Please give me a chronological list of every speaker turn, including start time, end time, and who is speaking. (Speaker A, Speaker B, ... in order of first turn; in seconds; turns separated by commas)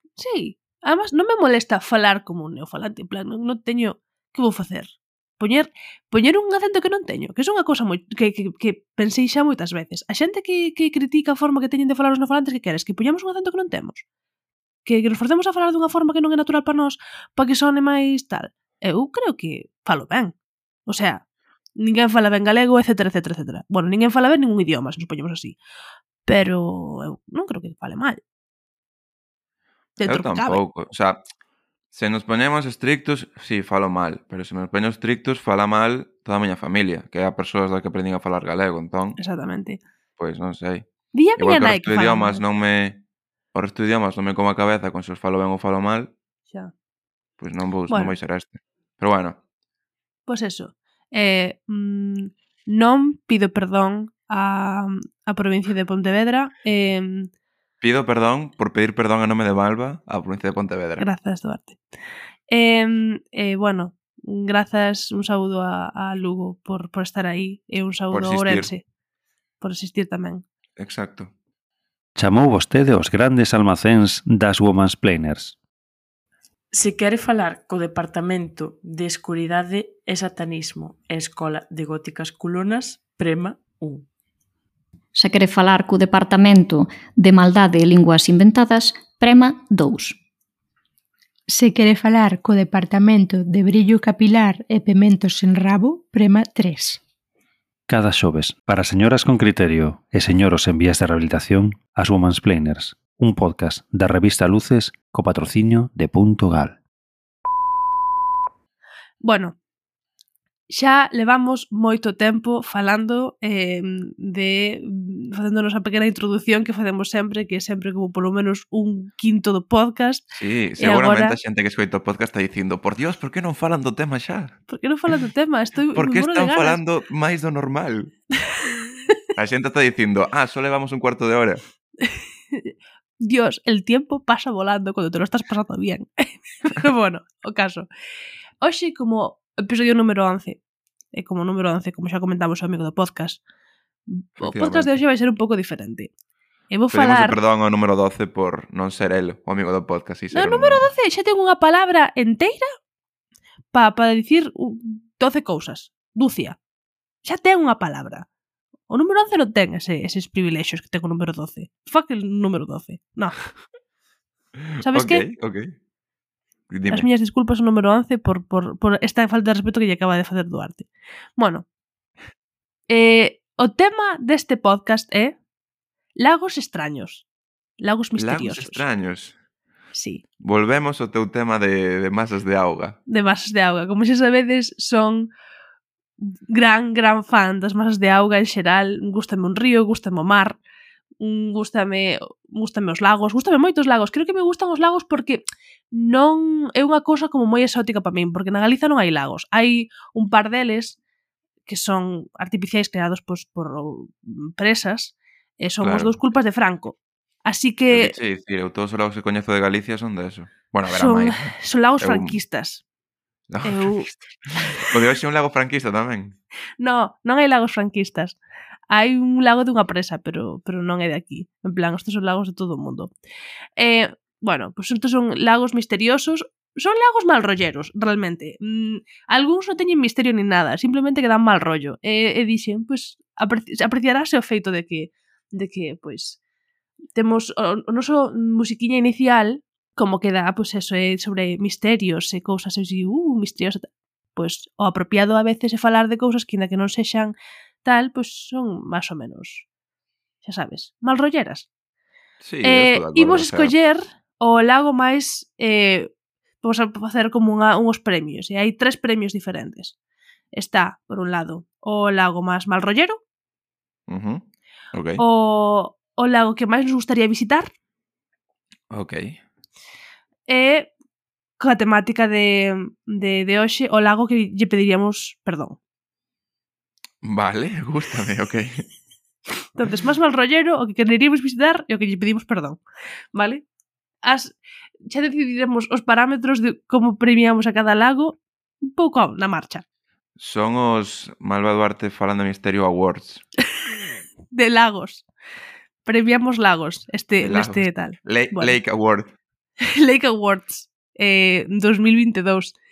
Speaker A: 0.2-14.0, Speaker A: 14.8-20.3, Speaker A: 20.9-21.2, Speaker A: 21.8-25.6, Speaker A: 26.2-28.2, Speaker A: 30.0-30.6, Speaker B: 30.0-31.2, Speaker B: 31.9-39.2, Speaker A: 39.2-39.8, Speaker B: 40.2-40.9, Speaker A: 41.1-42.4, Speaker B: 41.4-43.0, Speaker B: 43.5-46.1, Speaker B: 47.4-49.4, Speaker A: 47.9-48.1, Speaker A: 50.3-57.3, Speaker B: 57.8-61.0, Speaker A: 61.0-61.8, Speaker A: 62.5-68.8, Speaker B: 68.1-68.7, Speaker A: 69.6-70.4, Speaker B: 70.8-71.3, Speaker C: 72.2-75.6, Speaker D: 76.7-84.0, Speaker E: 85.1-90.2, Speaker F: 91.5-97.0, Speaker C: 97.9-106.8, Speaker A: 109.2-109.5, Speaker A: 110.7-120.2, Speaker B: 120.3-124.6, Speaker A: 120.8-121.4, Speaker A: 124.7-126.8, Speaker B: 125.9-128.1, Speaker B: 129.3-131.6, Speaker A: 132.0-137.9, Speaker A: 138.6-140.6, Speaker A: 141.1-143.4, Speaker A: 144.1-146.1, Speaker B: 144.4-144.9, Speaker A: 146.7-147.4, Speaker B: 146.9-150.9, Speaker A: 150.3-152.7, Speaker A: 153.7-156.6, Speaker A: 157.2-158.2, Speaker A: 158.9-163.3, Speaker B: 164.8-165.7, Speaker A: 164.8-165.2, Speaker B: 166.7-167.1, Speaker A: 166.9-171.6, Speaker A: 172.9-175.3, Speaker A: 176.2-177.2, Speaker A: 177.8-178.8, Speaker B: 178.2-179.3, Speaker A: 179.9-180.2, Speaker B: 180.4-183.0, Speaker A: 183.1-185.3, Speaker A: 186.5-190.6, Speaker A: 191.2-201.0, Speaker A: 201.7-208.1, Speaker B: 205.8-206.2, Speaker B: 207.9-212.3, Speaker A: 210.9-212.8, Speaker B: 213.5-216.3, Speaker A: 213.6-214.1, Speaker A: 214.6-214.9, Speaker A: 216.8-218.4, Speaker A: 218.9-223.1, Speaker A: 223.8-236.4, Speaker A: 237.2-249.6, Speaker A: 250.4-251.7, Speaker B: 252.4-253.7, Speaker A: 252.6-256.1, Speaker A: 256.6-259.9, Speaker A: 260.5-263.2, Speaker B: 264.1-265.2, Speaker A: 265.2-267.7, Speaker B: 268.9-269.4, Speaker A: 270.5-270.9, Speaker A: 271.6-275.8, Speaker B: 277.2-278.8, Speaker A: 279.7-282.8, Speaker A: 283.3-283.6, Speaker A: 284.2-284.6, Speaker A: 285.1-289.8, Speaker B: 290.4-293.4, Speaker A: 294.5-295.2, Speaker A: 296.0-298.8, Speaker B: 297.4-299.3, Speaker A: 299.9-302.7